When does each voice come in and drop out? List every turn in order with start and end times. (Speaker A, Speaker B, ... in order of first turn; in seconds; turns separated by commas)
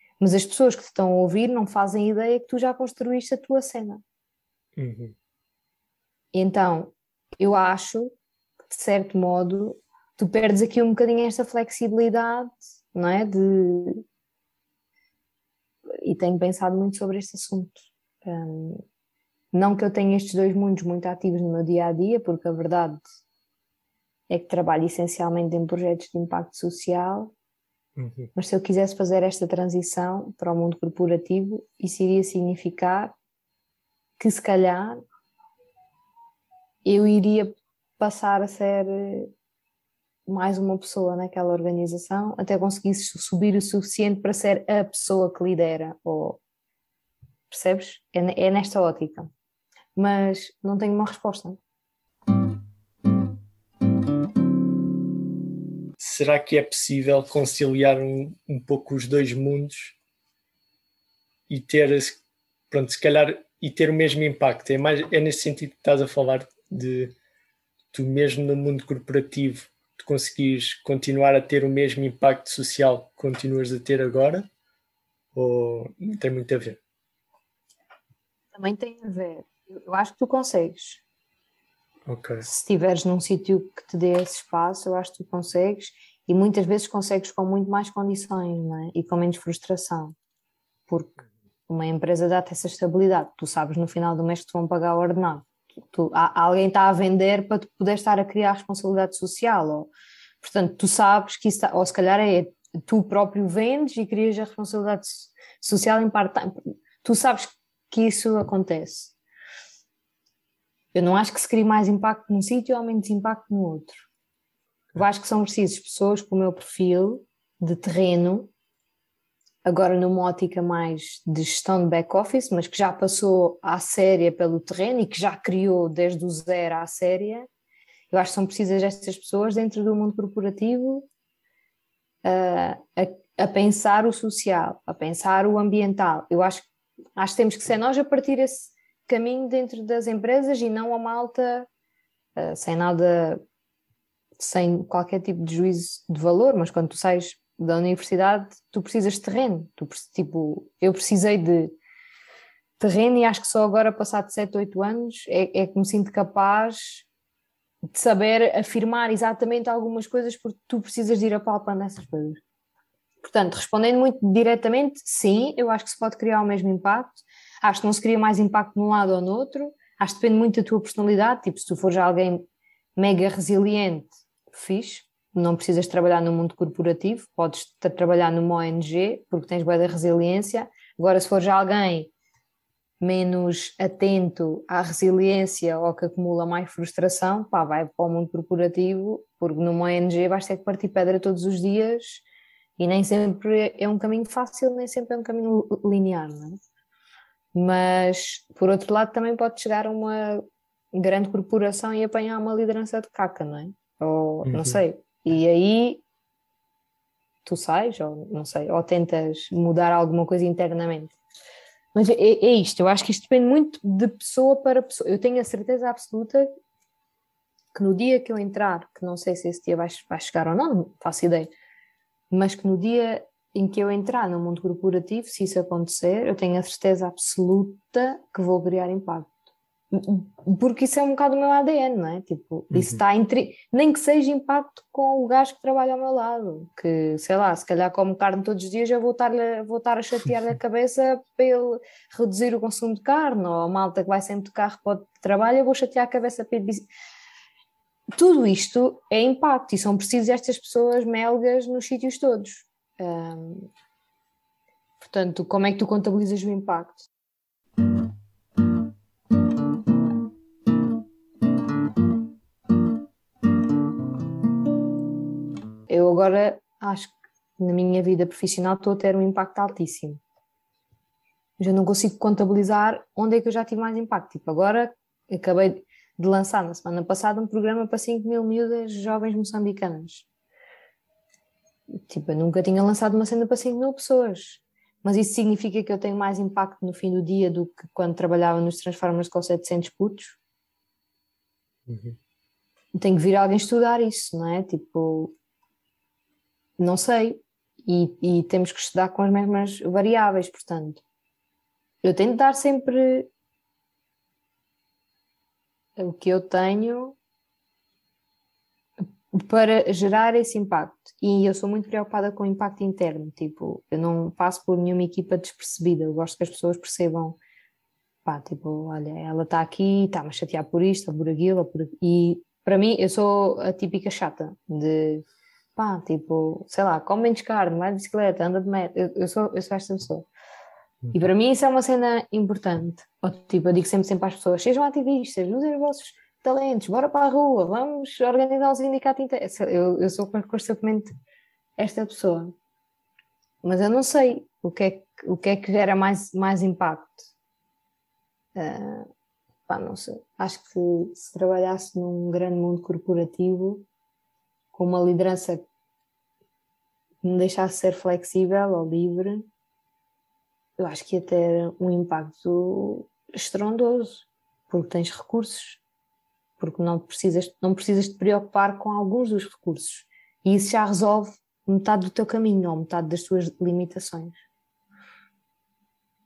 Speaker A: 0.2-4.0, Speaker B: 4.8-5.1, Speaker A: 6.3-8.1, Speaker A: 8.7-14.0, Speaker A: 16.0-18.8, Speaker A: 19.5-23.0, Speaker A: 24.3-27.3, Speaker B: 27.9-28.3, Speaker A: 28.3-33.1, Speaker A: 34.2-35.0, Speaker A: 36.8-39.3, Speaker A: 40.3-46.4, Speaker A: 47.5-49.3, Speaker A: 50.0-51.6, Speaker B: 56.0-60.0, Speaker B: 61.5-67.1, Speaker B: 67.9-74.5, Speaker B: 75.3-76.8, Speaker A: 78.5-81.0, Speaker B: 82.0-82.4, Speaker A: 82.4-90.1, Speaker A: 90.9-91.1, Speaker A: 91.7-99.9, Speaker A: 100.4-109.1, Speaker A: 110.9-114.0, Speaker A: 114.9-118.5, Speaker A: 119.6-127.5, Speaker A: 128.1-131.1, Speaker A: 132.2-141.7, Speaker A: 142.3-143.4, Speaker A: 144.4-151.7, Speaker A: 152.8-157.1, Speaker A: 157.9-162.4, Speaker A: 163.2-172.4, Speaker A: 173.0-182.1, Speaker A: 183.0-192.2, Speaker A: 192.8-196.6, Speaker A: 197.5-206.0, Speaker B: 204.4-204.8, Speaker A: 207.4-211.1, Speaker A: 211.9-216.5, Speaker A: 217.7-221.5, Speaker A: 222.3-229.3, Speaker A: 229.9-246.9, Speaker B: 232.7-233.0, Speaker A: 248.1-253.7, Speaker A: 255.0-257.1, Speaker A: 265.9-270.2, Speaker A: 271.6-280.2, Speaker A: 282.1-290.4, Speaker B: 291.9-292.2, Speaker A: 292.9-295.3, Speaker A: 296.8-301.0, Speaker A: 302.0-303.3, Speaker A: 306.0-307.1, Speaker A: 309.3-317.4, Speaker A: 318.2-325.2, Speaker A: 325.8-330.2, Speaker A: 331.1-341.1, Speaker A: 341.8-342.5, Speaker A: 343.6-347.3, Speaker A: 348.5-349.1, Speaker A: 349.7-353.8, Speaker A: 354.7-355.6, Speaker A: 357.2-359.5, Speaker A: 360.8-365.8, Speaker A: 366.6-374.4